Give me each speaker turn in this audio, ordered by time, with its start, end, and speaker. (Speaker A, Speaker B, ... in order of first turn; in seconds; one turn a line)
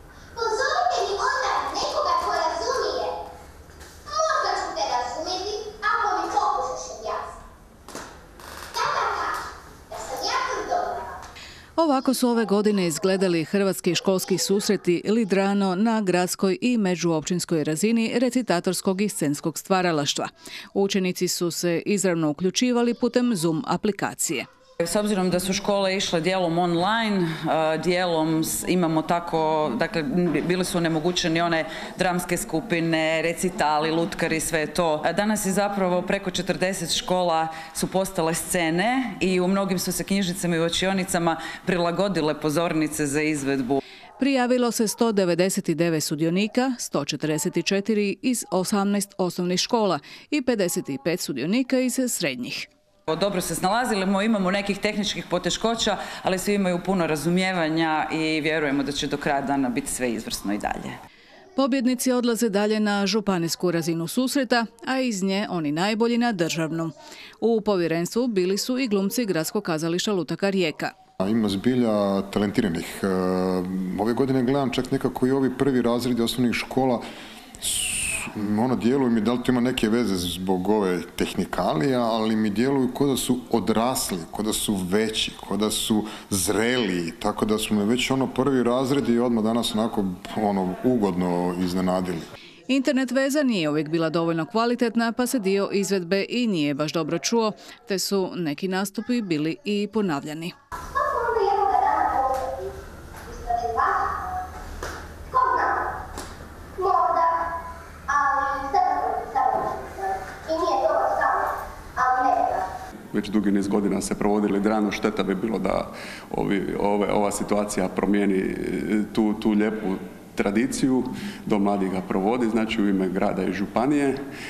Speaker A: 0.3-3.1
Speaker A: 4.1-7.2
Speaker A: 8.7-9.4
Speaker A: 9.9-11.2
Speaker B: 11.8-24.5
Speaker C: 24.8-43.8
Speaker B: 44.2-52.7
Speaker C: 53.1-61.0
Speaker B: 61.5-70.9
Speaker D: 71.2-77.0
Speaker D: 77.6-92.3
Speaker B: 92.7-100.5
Speaker A: 100.9-102.7
Speaker A: 103.2-104.3
Speaker A: 105.3-105.9
Speaker A: 106.8-107.5
Speaker A: 108.1-112.7
Speaker E: 113.1-124.2